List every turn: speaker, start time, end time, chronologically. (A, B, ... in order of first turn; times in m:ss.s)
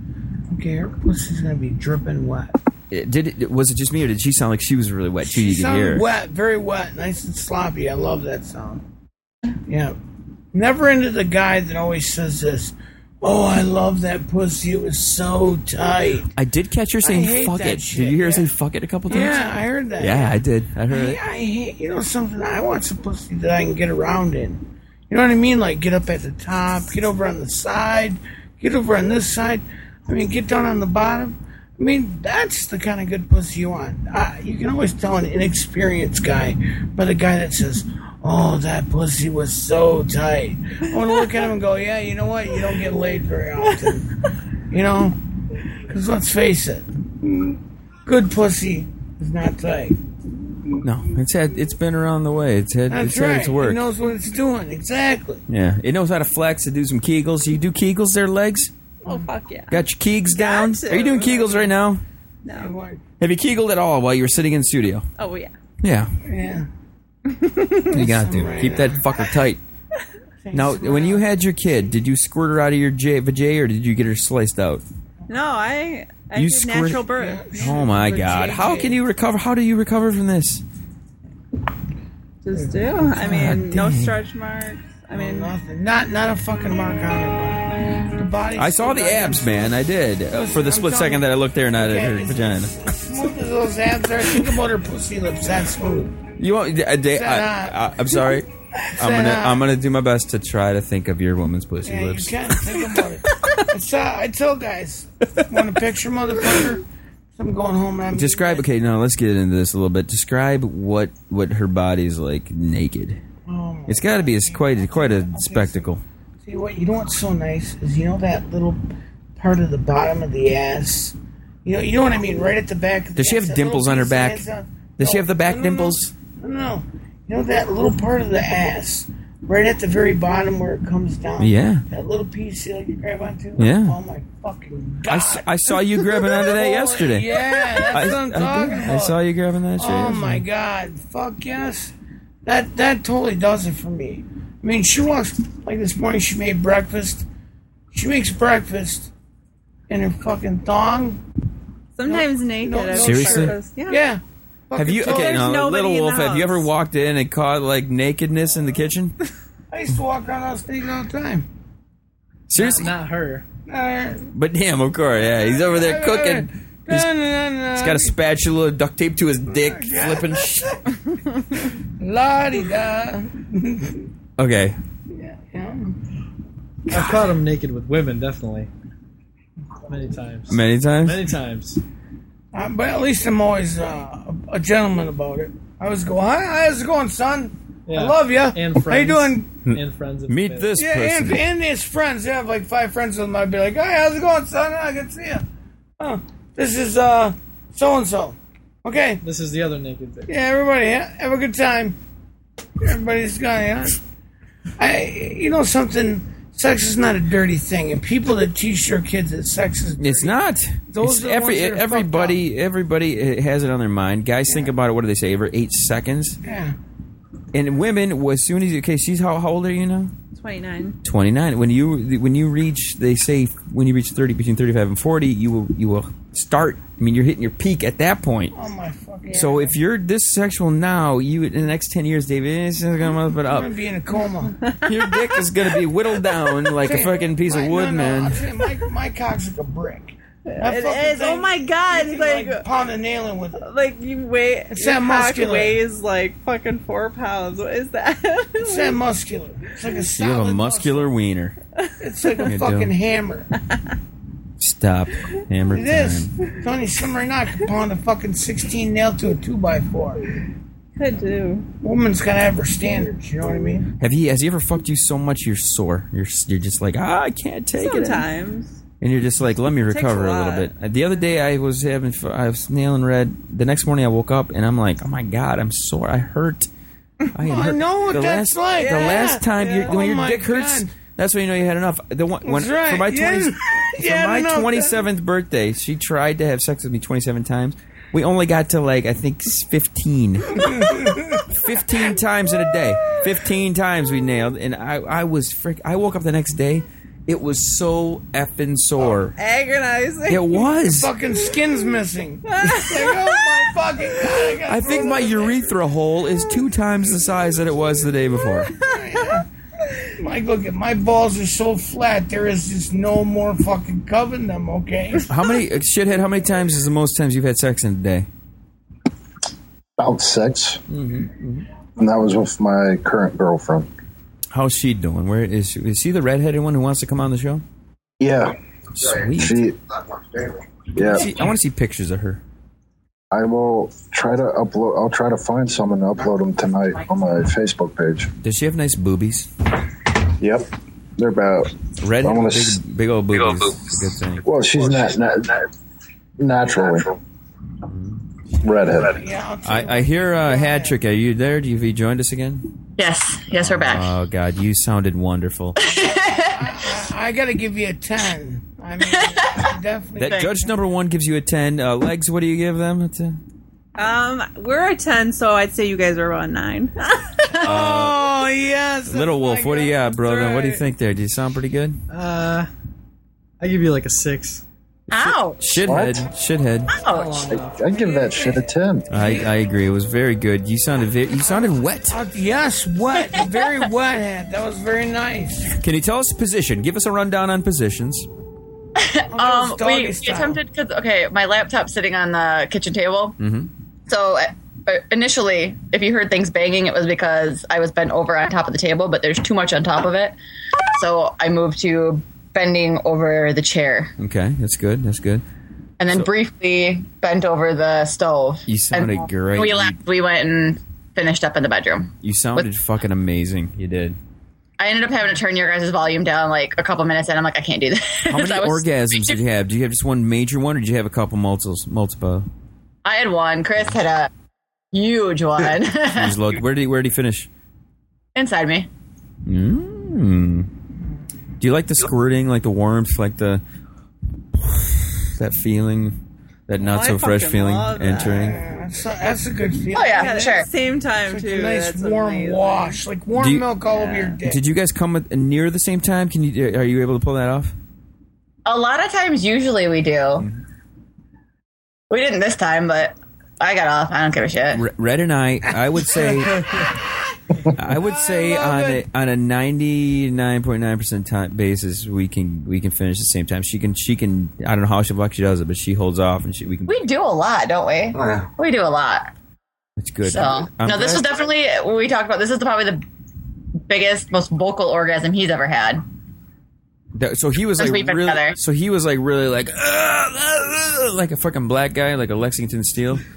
0:00.5-0:02.5 A
0:02.9-0:06.0 B
0:05.2-0:08.8 A
0:09.7-0:10.0 A
0:10.5-0:16.3 A
0:16.4-0:21.2 B
0:17.0-0:18.5 A
0:19.1-0:44.1 A
0:44.7-0:50.0 A
0:50.8-0:53.8 B
0:52.9-0:55.4 A
0:55.5-0:58.7 B
0:59.0-0:59.3 A
0:59.1-0:59.8 C
0:59.7-1:02.0 B
1:00.3-1:01.3 C
1:00.9-1:01.7 A
1:02.4-1:02.7 C
1:02.5-1:03.0 A
1:03.2-1:05.1 B
1:05.2-1:05.5 C
1:05.8-1:06.1 B
1:06.2-1:06.7 A
1:07.3-1:07.8 C
1:07.9-1:09.2 A
1:07.9-1:09.6 B
1:10.4-1:11.4 A
1:10.5-1:14.8 B
1:15.3-1:17.8 C
1:16.3-1:17.0 B
1:17.1-1:19.0 A
1:17.6-1:20.6 B
1:22.4-1:25.5 C
1:22.6-1:23.6 A
1:23.3-1:24.2 B
1:25.1-1:29.7 A
1:28.6-1:32.8 B
1:30.3-1:36.2 A
1:36.4-1:38.5 B
1:37.1-1:37.8 A
1:38.8-1:39.6 A
1:39.0-1:43.5 B
1:41.8-1:46.8 A
1:47.4-1:48.6 A
1:48.1-1:53.2 B
1:53.5-1:58.8 A
1:53.9-1:56.0 B
1:59.4-2:19.2 A
2:03.2-2:04.4 B
2:05.0-2:06.1 B
2:11.4-2:11.8 B
2:13.6-2:14.0 B
2:15.1-2:20.4 B
2:19.8-2:21.9 A
2:22.4-2:27.2 A
2:27.9-2:29.1 A
2:29.9-2:31.2 A
2:32.0-2:34.0 C
2:32.1-2:35.5 A
2:33.0-2:33.5 B
2:34.8-2:39.1 B
2:35.0-2:36.7 C
2:39.7-2:41.5 A
2:42.5-2:42.9 B
2:42.5-2:43.4 D
2:43.7-2:44.3 A
2:44.3-2:47.1 B
2:45.3-2:48.1 A
2:47.7-2:50.7 B
2:49.6-2:51.0 A
2:51.7-2:54.1 A
2:54.4-2:54.8 B
2:55.1-2:56.0 A
2:56.9-2:58.7 D
2:59.9-3:01.8 D
3:00.5-3:01.2 B
3:02.5-3:09.5 A
3:07.9-3:10.8 D
3:09.6-3:11.5 B
3:10.8-3:15.4 A
3:16.0-3:19.2 A
3:19.2-3:20.3 D
3:20.3-3:22.0 A
3:22.8-3:24.0 A
3:24.8-3:30.4 A
3:30.0-3:36.4 B
3:30.9-3:32.4 A
3:36.4-3:36.7 A
3:37.5-3:40.1 B
3:40.3-3:41.0 C
3:41.0-3:48.5 B
3:48.5-3:49.8 A
3:49.3-3:53.7 B
3:53.5-3:54.6 A
3:54.6-3:55.4 C
3:54.8-3:58.4 B
3:56.8-4:03.6 A
4:00.4-4:02.6 C
4:03.6-4:09.0 C
4:04.7-4:05.8 A
4:08.6-4:11.1 A
4:10.2-4:11.6 B
4:12.0-4:13.5 A
4:12.4-4:12.9 B
4:14.6-4:16.3 B
4:15.7-4:20.2 A
4:21.0-4:21.7 C
4:21.8-4:23.9 A
4:24.0-4:28.2 B
4:27.8-4:28.8 C
4:29.0-4:36.7 B
4:29.9-4:30.7 C
4:37.3-4:59.4 B
4:37.4-4:40.9 A
4:38.8-4:39.9 C
4:42.4-4:45.0 A
4:50.6-4:51.4 A
4:59.4-5:00.6 C
5:00.3-5:01.1 B
5:00.8-5:05.6 A
5:02.5-5:03.7 C
5:04.6-5:08.7 B
5:08.7-5:09.2 C
5:08.8-5:09.5 A
5:10.2-5:15.3 A
5:15.3-5:18.3 B
5:20.0-5:20.8 E
5:20.9-5:21.6 B
5:22.0-5:23.9 E
5:24.5-5:27.6 B
5:28.2-5:28.5 E
5:28.9-5:29.6 B
5:29.3-5:29.8 E
5:30.9-5:31.5 E
5:31.0-5:32.4 B
5:33.3-5:38.3 E
5:38.4-5:39.5 B
5:40.4-5:42.8 E
5:42.0-5:44.4 B
5:44.4-5:45.6 E
5:46.4-5:47.1 E
5:47.9-5:48.6 B
5:48.6-5:49.2 E
5:49.1-5:51.0 A
5:49.6-5:52.6 B
5:53.0-5:54.1 F
5:53.5-5:55.8 B
5:55.8-5:56.7 F
5:55.9-6:00.8 A
5:59.2-5:59.6 F
6:00.2-6:03.4 B
6:04.0-6:07.5 C
6:07.6-6:10.6 A
6:07.6-6:08.2 B
6:09.0-6:12.0 B
6:10.3-6:10.8 C
6:12.1-6:12.7 D
6:13.6-6:14.6 D
6:15.1-6:15.7 F
6:15.1-6:17.0 B
6:15.8-6:16.3 E
6:17.0-6:17.4 F
6:17.1-6:18.7 D
6:17.4-6:19.1 E
6:19.1-6:22.2 B
6:19.1-6:19.5 A
6:21.4-6:25.7 A
6:25.7-6:28.3 B
6:29.0-6:33.4 F
6:29.3-6:30.6 A
6:33.4-6:33.7 B
6:34.1-6:40.4 F
6:40.9-6:44.1 F
6:44.2-6:45.4 B
6:46.0-6:52.7 F
6:48.7-6:50.0 B
6:52.2-6:54.2 B
6:54.8-6:59.4 F
6:58.3-7:02.5 B
7:03.0-7:04.3 F
7:04.9-7:06.4 F
7:06.1-7:07.5 B
7:08.3-7:08.9 F
7:09.4-7:10.7 B
7:11.6-7:13.6 B
7:14.5-7:18.6 B
7:16.8-7:18.6 C
7:18.3-7:20.6 A
7:19.9-7:20.7 F
7:20.0-7:23.0 C
7:21.2-7:24.6 A
7:23.3-7:23.7 B
7:24.4-7:27.7 B
7:28.6-7:30.5 F
7:32.1-7:34.8 F
7:34.7-7:36.8 B
7:36.6-7:36.9 A
7:37.7-7:47.0 B
7:37.8-7:39.0 A
7:46.8-7:49.3 F
7:50.0-7:51.3 B
7:50.2-7:53.0 F
7:53.9-7:56.0 F
7:57.1-8:03.2 B
7:57.8-7:58.6 F